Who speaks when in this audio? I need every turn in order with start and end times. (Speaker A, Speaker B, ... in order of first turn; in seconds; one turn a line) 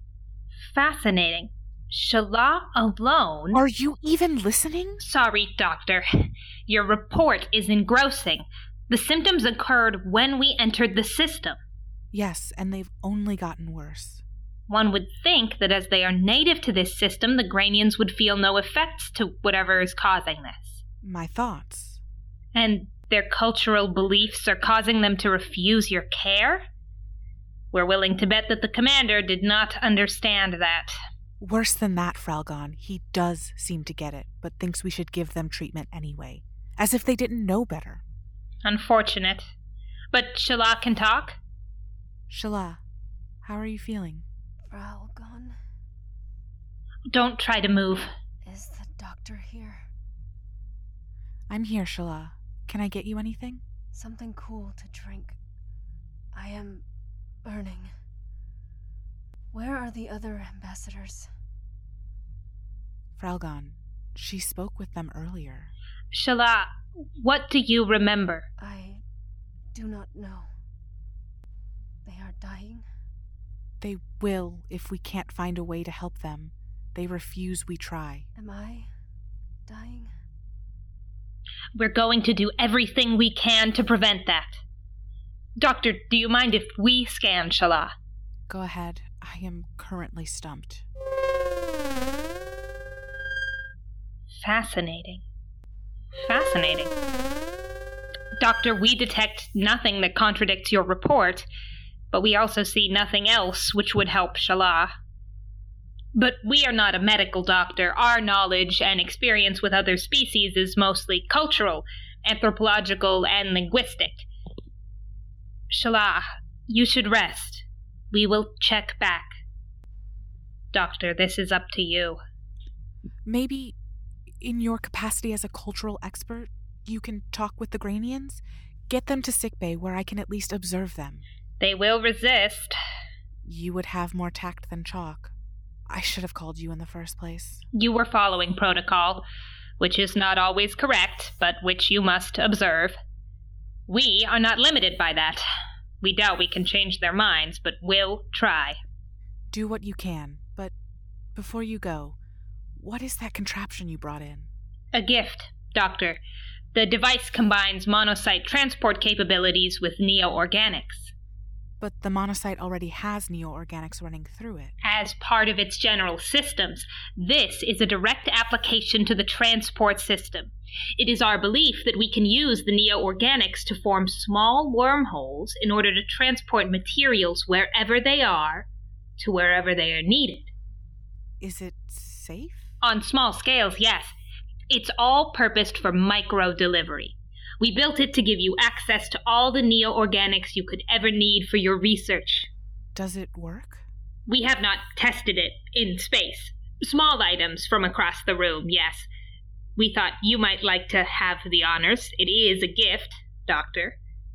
Speaker A: 0.6-3.6
Speaker B: 3.5-5.0
Speaker A: 5.0-11.6
Speaker B: 12.1-14.2
Speaker A: 14.7-20.8
Speaker B: 21.0-22.0
Speaker A: 22.5-26.6
Speaker A: 27.7-30.9
Speaker B: 31.4-38.0
Speaker A: 38.6-39.5
Speaker A: 40.1-41.4
Speaker B: 42.3-42.8
Speaker B: 43.4-44.2
Speaker C: 44.7-45.5
Speaker A: 47.1-48.1
Speaker C: 48.4-49.9
Speaker B: 51.5-53.6
Speaker C: 53.9-55.4
Speaker C: 56.3-56.8
Speaker C: 57.4-57.9
Speaker C: 59.5-61.3
Speaker B: 63.2-65.7
Speaker A: 66.1-68.5
Speaker C: 68.6-69.0
Speaker C: 69.7-70.5
Speaker C: 72.0-72.8
Speaker B: 73.8-78.3
Speaker C: 78.3-78.9
Speaker C: 79.7-80.1
Speaker A: 81.7-84.6
Speaker A: 85.6-87.9
Speaker B: 88.5-90.8
Speaker A: 94.3-95.2
Speaker A: 96.2-96.9
Speaker A: 98.4-101.5
Speaker A: 102.1-104.9
Speaker A: 106.1-114.2
Speaker A: 115.7-119.4
Speaker A: 120.7-122.2
Speaker B: 123.2-123.7
Speaker B: 124.4-131.2
Speaker A: 131.6-132.8
Speaker B: 133.4-135.3
Speaker B: 135.9-137.6
Speaker A: 137.7-139.2
Speaker A: 139.8-143.0
Speaker A: 143.9-145.4
Speaker A: 146.0-148.8
Speaker B: 149.5-150.7
Speaker B: 151.3-152.2
Speaker B: 152.8-154.5
Speaker A: 154.9-156.2
Speaker A: 156.7-161.1
Speaker B: 161.8-164.7
Speaker A: 164.8-178.7
Speaker A: 179.2-180.5
Speaker B: 181.4-182.7
Speaker A: 182.8-184.1
Speaker A: 184.7-192.5
Speaker B: 192.9-193.8
Speaker A: 194.3-199.1
Speaker A: 199.8-204.0